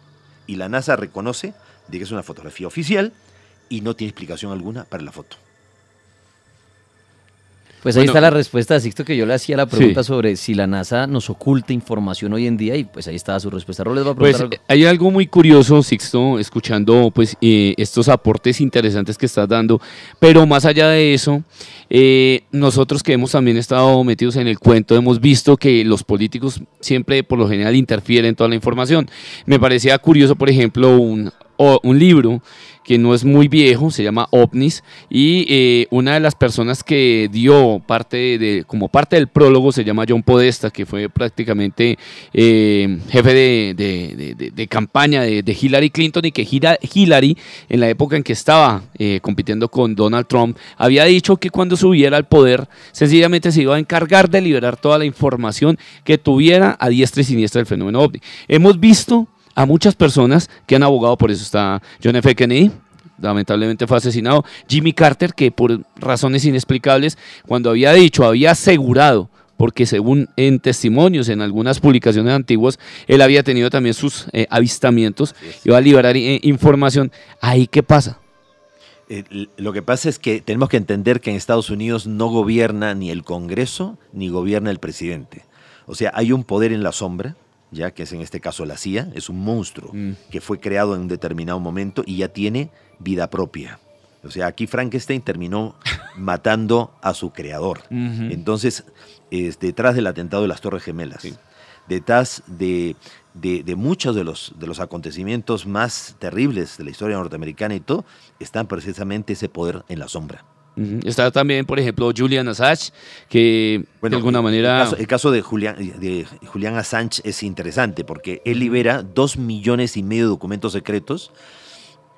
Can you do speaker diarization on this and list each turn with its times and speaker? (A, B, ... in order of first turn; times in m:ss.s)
0:00.5-0:03.2 A
0:03.7-0:05.4 A
0:07.8-0:14.6 B
0:08.0-0:08.3 C
0:09.7-0:10.0 C
0:14.2-1:18.2 C
1:19.1-1:41.3 A
1:37.9-1:38.4 C
1:41.9-1:50.4 A
1:50.8-1:55.0 C
1:54.0-2:01.3 A
1:58.5-1:58.8 C